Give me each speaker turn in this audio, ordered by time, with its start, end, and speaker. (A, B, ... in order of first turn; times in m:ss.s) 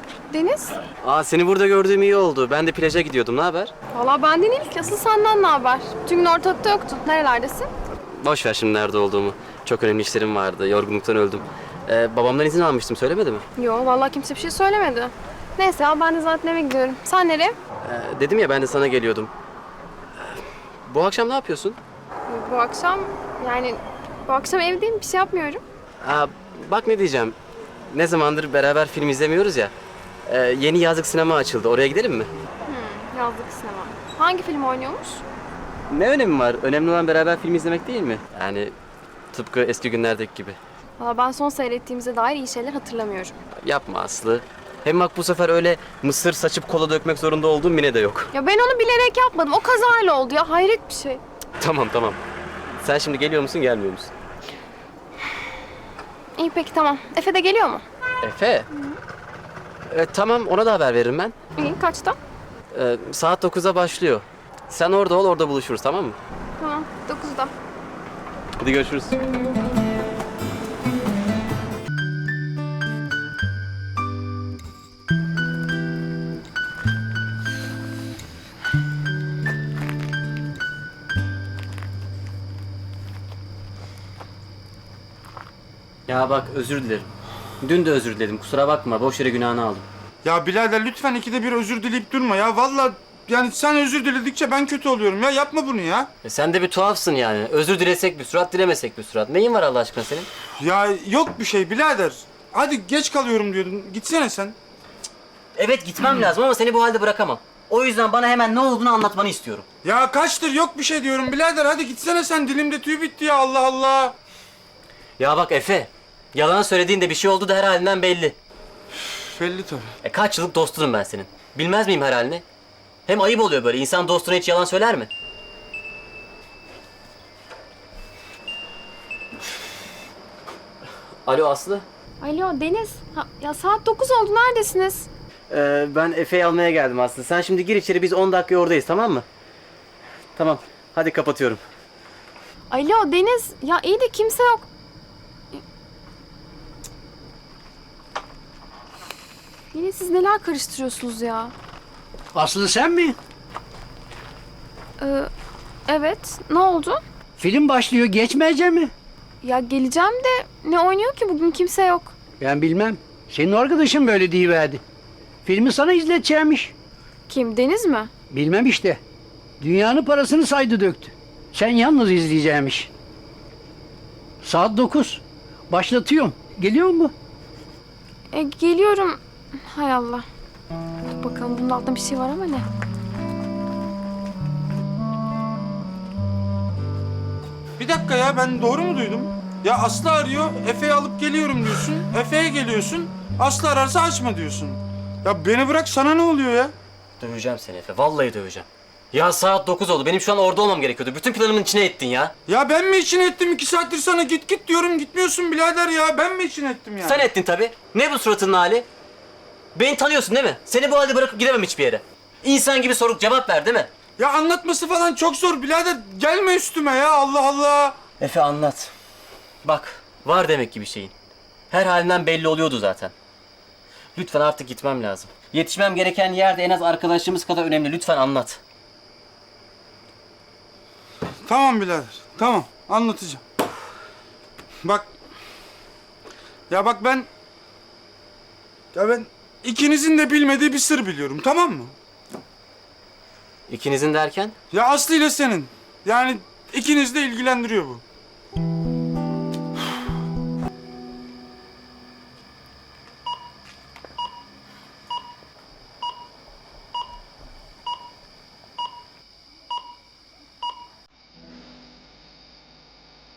0:00.3-0:00.8 A
0:01.0-0:03.7 B
0:03.9-0:07.7 A
0:08.0-0:13.4 B
0:13.6-0:17.6 A
0:17.8-0:19.3 B
0:20.2-0:21.8 B
0:22.3-0:25.6 A
0:26.0-0:29.7 B
0:30.3-0:32.3 B
0:32.7-0:35.2 A
0:35.9-0:38.7 B
0:39.3-0:40.6 B
0:41.0-0:43.4 A
0:43.6-0:48.3 B
0:48.3-0:51.2 A
0:51.6-0:52.2 B
0:52.8-0:54.1 B
0:56.4-0:57.8 A
0:58.2-0:58.7 B
0:59.9-1:01.4 B
1:01.6-1:02.2 A
1:02.7-1:06.2 B
1:06.6-1:07.5 A
1:08.6-1:09.2 B
1:26.1-1:27.1 B
1:27.6-1:29.9 B
1:30.2-1:36.1 C
1:36.2-1:40.3 B
1:40.6-1:44.6 C
1:45.6-1:49.6 B
1:49.8-1:54.1 C
1:55.2-1:58.4 B
1:59.2-1:59.9 C
2:00.0-2:02.4 B
2:03.1-2:05.1 B
2:11.2-2:11.9 B
2:12.2-2:15.1 A
2:15.5-2:19.3 B
2:20.4-2:21.6 B
2:22.7-2:24.7 A
2:29.7-2:31.5 A
2:32.3-2:33.2 D
2:35.0-2:35.3 A
2:35.9-2:37.0 A
2:37.4-2:38.9 D
2:39.4-2:42.2 A
2:42.4-2:44.8 D
2:45.4-2:46.7 D
2:47.3-2:48.1 A
2:48.3-2:49.0 D
2:49.6-2:52.9 D
2:54.4-2:57.1 D
2:58.3-3:00.2 A
3:01.2-3:02.7 A
3:07.8-3:16.7 C
3:17.2-3:22.3 B
3:22.5-3:27.3 C
3:27.0-3:28.9 B
3:29.7-3:33.9 B
3:34.2-3:38.0 C
3:38.2-3:38.9 B
3:39.6-3:41.1 B
3:41.7-3:43.1 B
3:44.2-3:48.6 B
3:51.5-3:53.4 C
3:54.8-3:55.1 C
3:56.7-3:57.3 C
3:58.9-4:02.0 C
4:03.7-4:04.6 B
4:04.7-4:08.0 C